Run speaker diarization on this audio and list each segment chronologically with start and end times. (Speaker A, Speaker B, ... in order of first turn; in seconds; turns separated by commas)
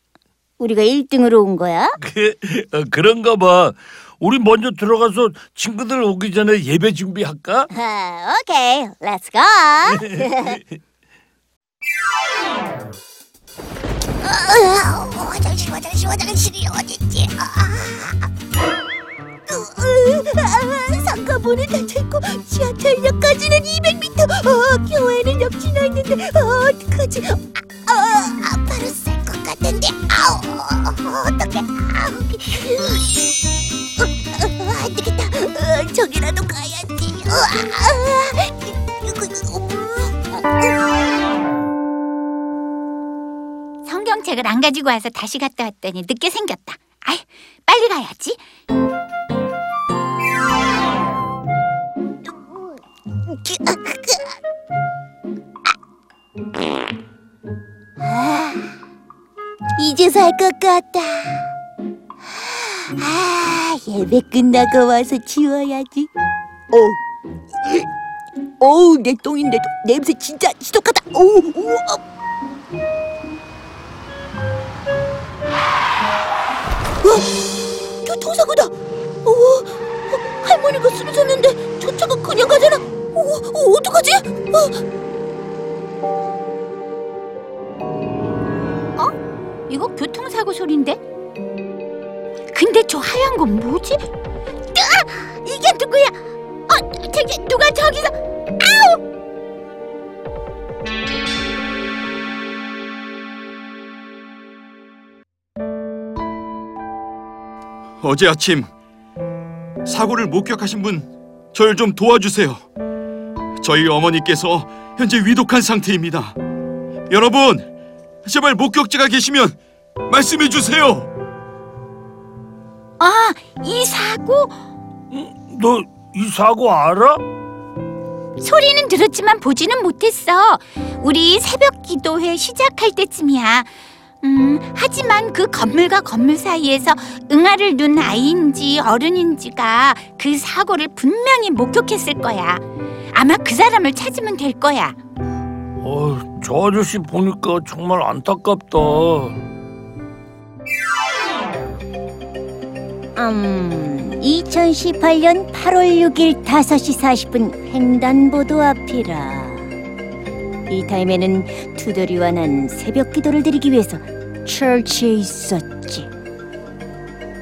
Speaker A: 0.6-1.9, Speaker B: 2.0-7.7, Speaker A: 7.7-10.6, Speaker C: 14.2-18.2, Speaker C: 19.5-33.2, Speaker C: 34.3-40.7, Speaker D: 43.8-48.4, Speaker C: 52.3-52.7, Speaker C: 53.3-54.2, Speaker C: 58.0-58.7, Speaker C: 59.8-61.5, Speaker C: 62.3-66.1, Speaker C: 66.7-67.0, Speaker C: 68.6-72.0, Speaker C: 77.0-77.3, Speaker C: 78.0-78.7, Speaker C: 79.2-84.8, Speaker D: 89.7-91.0, Speaker D: 92.5-94.0, Speaker D: 94.7-96.1, Speaker D: 96.7-99.0, Speaker E: 108.0-108.7, Speaker E: 109.8-112.6, Speaker E: 113.6-116.3, Speaker E: 117.1-117.7, Speaker E: 118.2-121.1, Speaker D: 123.0-124.5, Speaker B: 125.1-127.2, Speaker D: 128.4-133.7, Speaker D: 134.2-144.9, Speaker B: 145.8-149.4, Speaker A: 153.2-159.7, Speaker A: 160.7-166.1